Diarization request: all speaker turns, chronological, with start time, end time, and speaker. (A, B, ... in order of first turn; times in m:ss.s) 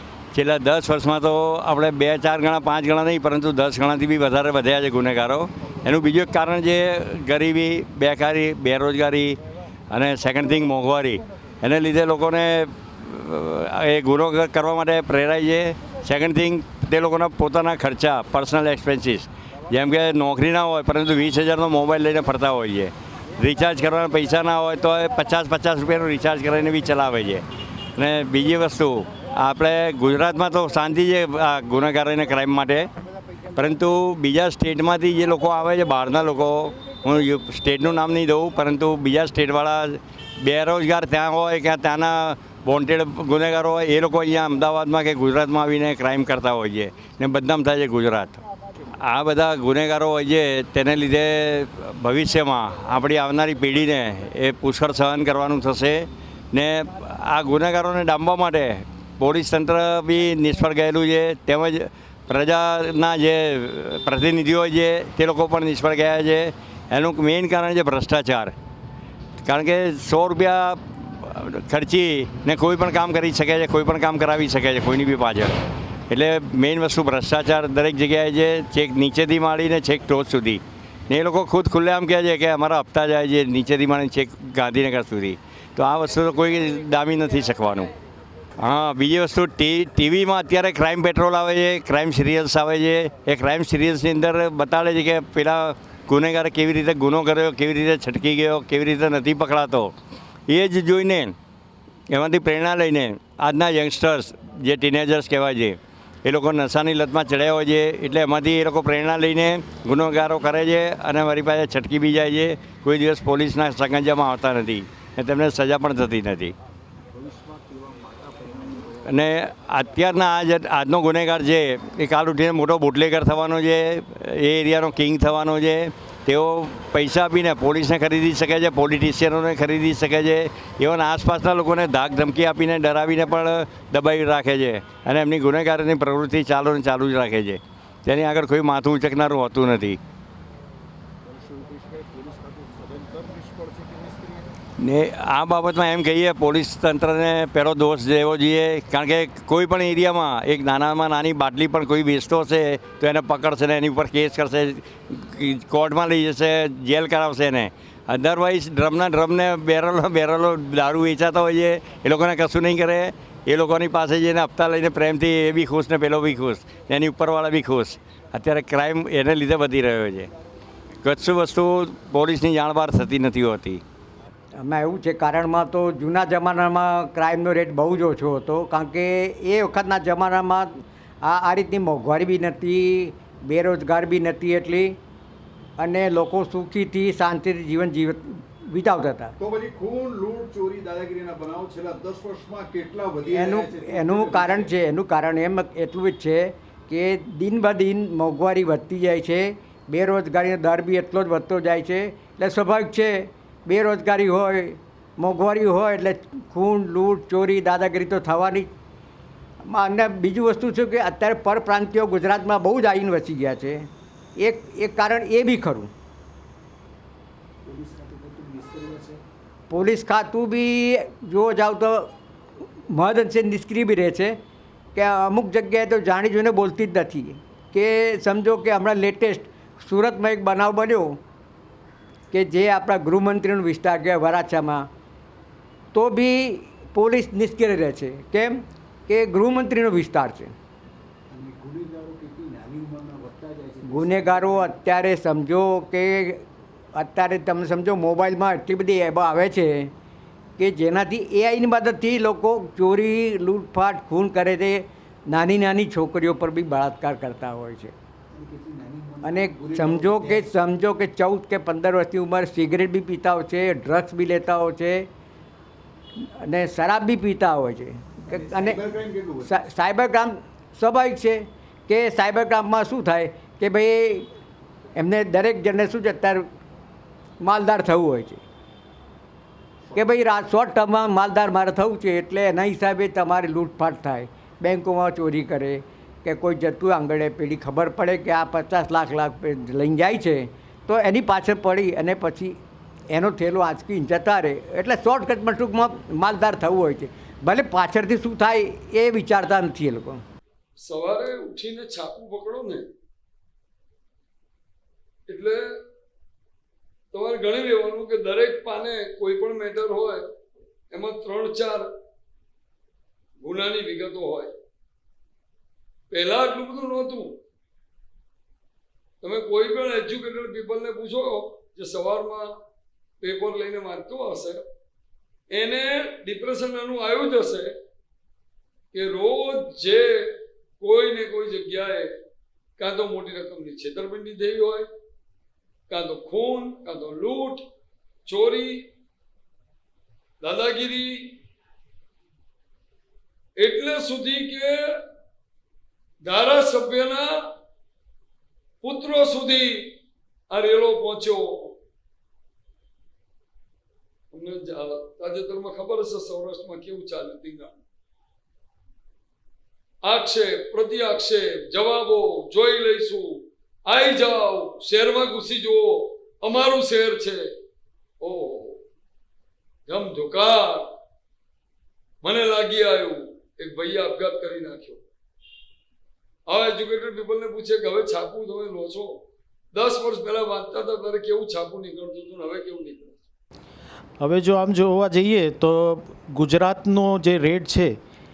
0:00.3-0:09.4 A
0:09.9-0:27.4 A
0:28.0-0:32.9 A
0:33.6-0:48.4 A
0:49.0-1:08.5 A
1:09.4-1:27.9 A
1:28.6-1:39.9 A
1:40.5-1:41.4 A
1:42.1-1:56.6 A
1:57.2-1:58.9 B
1:59.0-2:20.0 A
2:24.8-2:50.3 A
2:51.0-2:53.8 A
2:54.6-3:05.0 C
3:05.8-3:09.3 C
3:09.4-3:14.7 B
3:13.3-3:28.7 C
3:29.7-3:35.9 C
3:37.6-3:39.2 B
3:39.7-3:42.1 C
3:42.9-3:44.4 C
3:45.0-3:51.2 C
3:52.3-3:54.9 C
3:55.9-4:00.6 C
4:01.3-4:04.8 B
4:03.8-4:09.9 C
4:10.6-4:17.9 C
4:18.3-4:20.6 B
4:19.2-4:25.1 C
4:26.2-4:28.8 C
4:28.3-4:29.6 B
4:29.4-4:34.3 C
4:35.0-4:36.5 C
4:37.4-4:38.4 C
4:39.9-4:52.6 C
4:53.1-5:00.2 C
5:00.8-5:02.9 D
5:05.3-5:05.8 D
5:07.1-5:10.3 D
5:10.9-5:11.9 D
5:13.4-5:14.6 D
5:16.1-5:17.4 D
5:19.2-5:22.5 D
5:23.2-5:24.6 D
5:25.5-5:27.7 D
5:28.9-5:32.1 D
5:32.8-5:34.9 D
5:35.9-5:37.6 D
5:38.3-5:38.9 D
5:40.4-5:41.4 D
5:43.6-5:45.0 D
5:46.2-5:47.3 D
5:48.8-5:50.0 D
5:50.5-5:51.8 D
5:54.3-5:57.8 D
6:00.0-6:07.5 D
6:08.2-6:08.8 D
6:09.9-6:10.9 D
6:12.2-6:15.0 D
6:16.5-6:19.2 D
6:19.7-6:23.2 D
6:24.2-6:28.0 E